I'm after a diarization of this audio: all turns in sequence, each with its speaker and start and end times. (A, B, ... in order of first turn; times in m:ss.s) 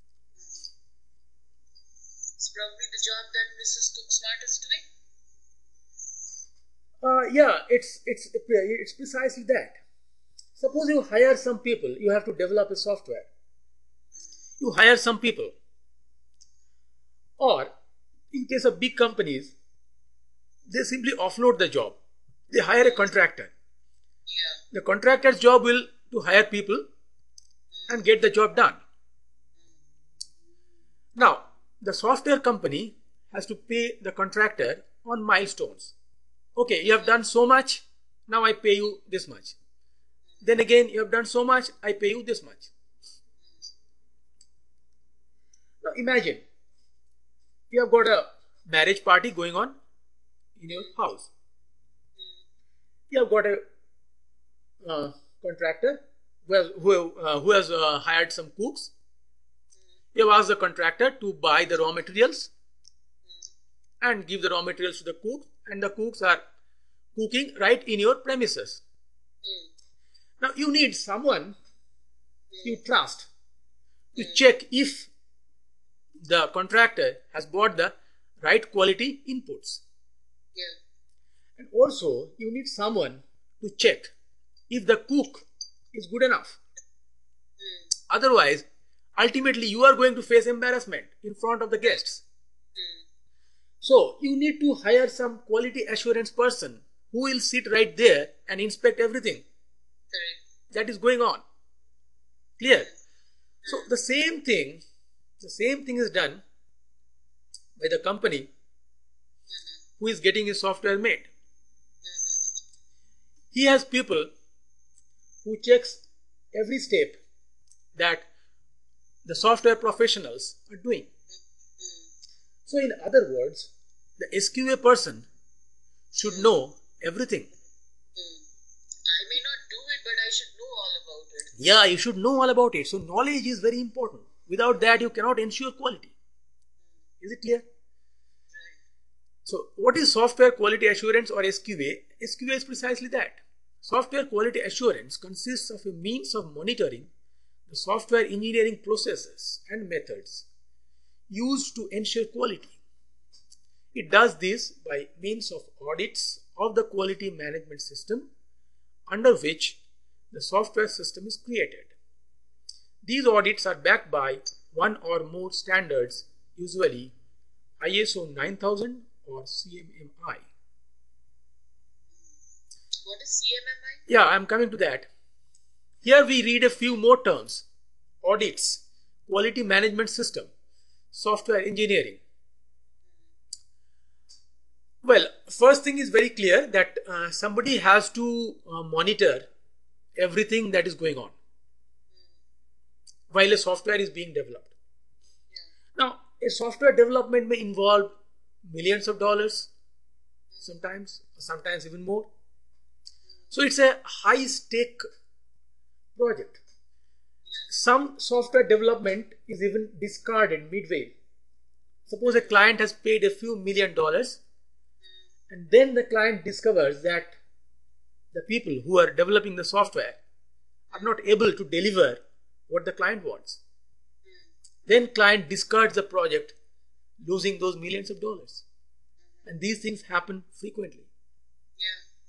0:02.4-0:04.8 A
0:07.0-0:09.8 B
0:10.6-0:13.3 B
0:14.6-0:15.5 B
0:17.4-0:17.7 B
0:18.3-0:19.5 B
0:20.7-0:22.0 B
0:22.5-0:23.5 B
0:24.3-0:24.6 A
0:24.7-0:26.8 B
0:27.9-0:28.8 B
0:31.2-0:35.9 B
0:36.6-0:39.6 B
0:40.4-0:42.7 B
0:45.8-0:46.4 B
0:47.7-0:49.7 B
0:50.6-0:51.3 B
0:53.1-0:53.6 B
0:54.8-0:58.9 B
1:00.1-1:02.5 B
1:04.0-1:06.4 B
1:07.1-1:08.8 B
1:09.4-1:09.7 A
1:10.4-1:11.5 B
1:12.6-1:13.3 B
1:14.2-1:15.1 B
1:16.2-1:19.8 B
1:21.6-1:24.1 B
1:24.7-1:26.6 B
1:27.6-1:27.9 A
1:28.1-1:28.6 B
1:29.2-1:32.2 B
1:32.8-1:33.0 A
1:33.8-1:39.4 B
1:40.1-1:40.4 A
1:40.7-1:41.4 B
1:42.6-1:42.9 B
1:43.7-1:44.8 B
1:45.4-1:46.4 B
1:47.8-1:48.5 B
1:50.0-1:51.3 B
1:52.0-1:52.5 A
1:53.5-1:54.3 B
1:55.4-1:56.0 B
1:56.5-1:57.2 B
1:57.9-1:58.3 B
1:59.2-2:01.1 B
2:01.8-2:02.1 A
2:02.6-2:05.3 B
2:06.1-2:07.5 B
2:08.2-2:08.4 A
2:09.1-2:11.5 A
2:11.5-2:16.1 B
2:17.2-2:17.6 B
2:19.4-2:27.1 B
2:27.7-2:30.4 B
2:31.3-2:32.8 B
2:33.9-2:38.3 B
2:39.1-2:39.8 B
2:40.3-2:41.9 B
2:43.0-2:47.1 B
2:47.8-2:50.5 B
2:53.0-2:54.0 A
2:54.1-2:55.1 B
2:56.0-2:57.6 B
2:58.2-3:00.5 B
3:01.1-3:02.2 B
3:05.0-3:09.5 B
3:10.2-3:11.3 B
3:13.3-3:14.7 B
3:16.0-3:18.1 B
3:18.6-3:19.7 B
3:20.6-3:22.3 B
3:23.5-3:25.0 B
3:26.2-3:26.6 B
3:27.7-3:31.1 B
3:32.1-3:34.4 B
3:35.5-3:37.3 B
3:38.3-3:40.2 B
3:40.9-3:43.6 B
3:44.9-3:46.6 B
3:47.2-3:48.6 B
3:49.4-3:51.1 B
3:51.8-3:52.0 A